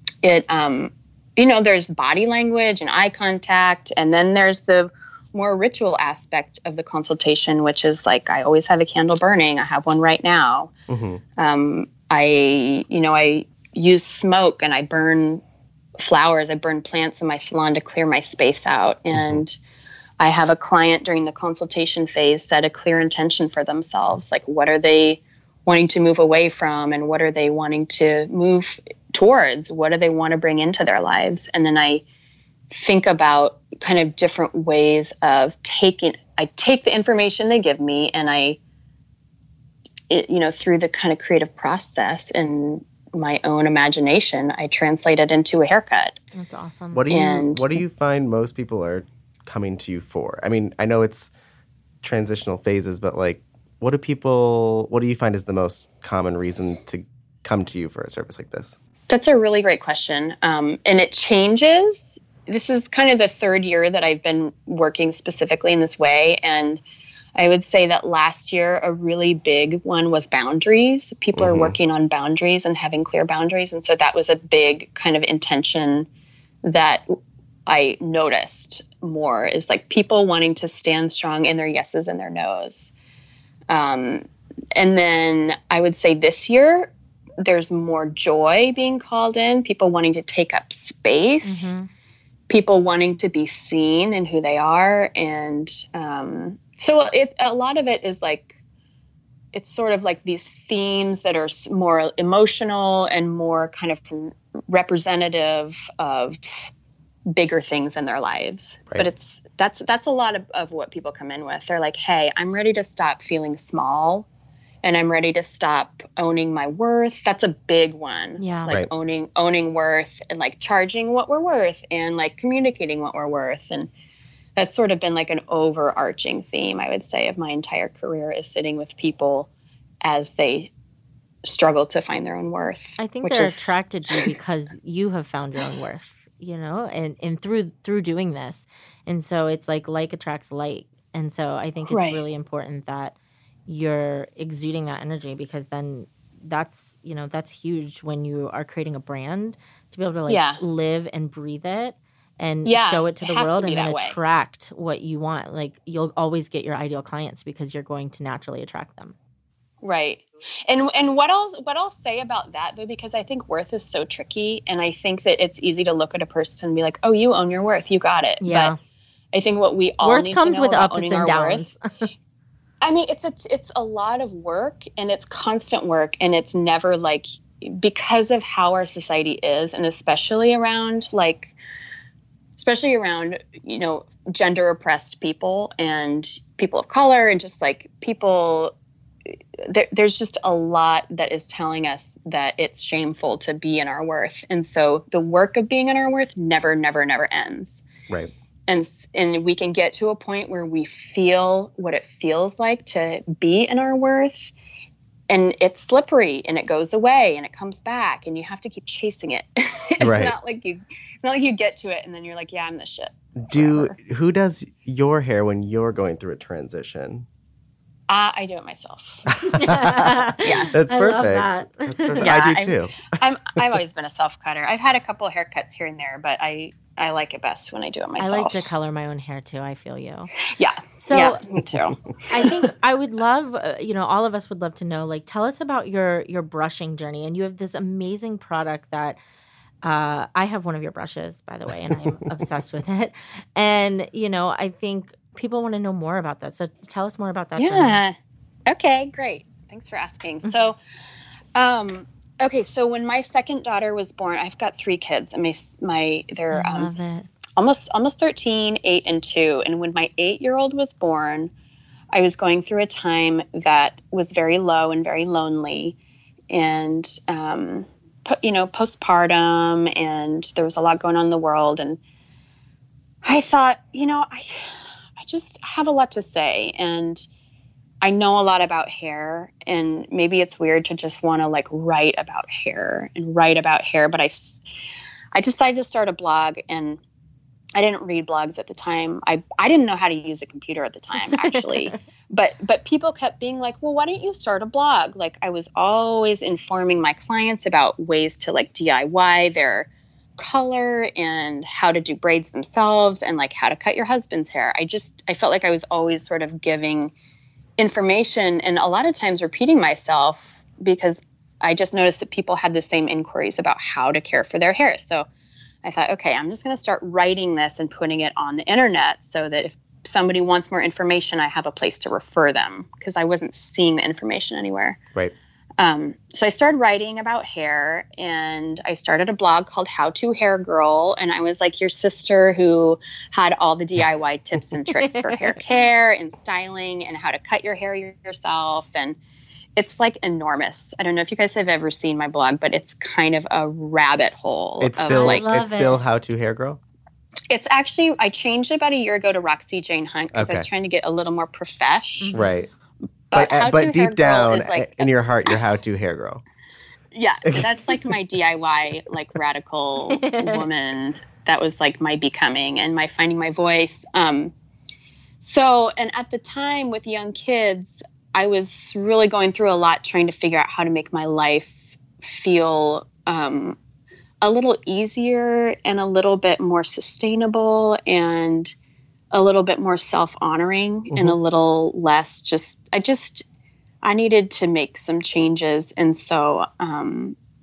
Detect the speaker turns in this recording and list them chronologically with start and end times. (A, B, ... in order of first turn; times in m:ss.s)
0:00.2-0:10.7 A
0:10.9-0:11.2 B
0:11.4-0:15.4 A
0:16.0-0:19.6 A
0:19.1-0:19.4 B
0:20.2-0:32.0 A
0:32.7-0:38.6 A
0:40.1-0:46.2 A
0:46.3-0:47.0 C
0:46.9-0:51.3 B
0:47.1-0:47.6 A
0:52.0-0:58.8 B
0:59.1-1:06.8 A
1:07.4-1:16.1 A
1:11.4-1:11.8 B
1:16.6-1:17.1 A
1:17.7-1:22.9 A
1:23.7-1:31.8 A
1:31.4-1:31.9 C
1:32.5-1:38.6 A
1:39.5-1:46.7 A
1:47.3-1:54.2 A
1:54.8-2:03.9 A
1:58.4-1:58.7 C
2:04.6-2:09.5 A
2:10.0-2:10.7 A
2:11.4-2:14.3 A
2:13.0-2:23.1 C
2:21.9-2:22.2 A
2:23.7-2:39.1 C
2:30.3-2:30.6 A
2:32.6-2:34.2 A
2:39.8-2:48.7 A
2:48.4-2:48.8 C
2:49.3-2:51.7 A
2:50.0-2:52.1 C
2:52.8-3:01.5 A
3:02.6-3:08.7 A
3:09.6-3:17.8 A
3:18.7-3:24.5 A
3:25.3-3:33.9 A
3:30.0-3:30.3 B
3:33.4-3:37.2 B
3:38.1-3:39.0 A
3:39.3-3:43.1 B
3:39.5-3:42.3 C
3:40.4-3:40.7 A
3:42.2-3:48.7 A
3:48.2-3:50.3 C
3:50.5-3:52.7 A
3:51.0-3:51.4 C
3:52.3-3:59.2 C
3:59.8-4:08.0 C
4:07.6-4:08.1 A
4:08.7-4:10.8 A
4:11.5-4:16.9 A
4:16.5-4:17.3 C
4:17.6-4:21.5 A
4:22.1-4:26.0 A
4:26.5-4:32.0 A
4:33.2-4:37.2 A
4:38.0-4:44.6 A
4:45.3-4:47.0 A
4:47.7-5:07.1 A
4:51.3-4:52.0 C
5:07.8-5:15.3 A
5:15.8-5:25.0 A
5:25.8-5:39.2 A
5:34.9-5:35.6 C
5:39.8-5:45.4 A
5:44.8-5:46.8 B
5:45.1-5:46.0 C
5:47.5-5:52.3 A
5:50.3-5:50.7 B
5:52.2-5:52.5 C
5:52.3-5:52.7 B
5:53.3-5:55.6 A
5:53.3-5:56.4 B
5:57.1-6:04.5 A
6:00.1-6:00.7 C
6:05.4-6:13.8 A
6:14.4-6:18.7 A
6:19.3-6:23.4 A
6:21.1-6:21.4 B
6:24.0-6:27.3 A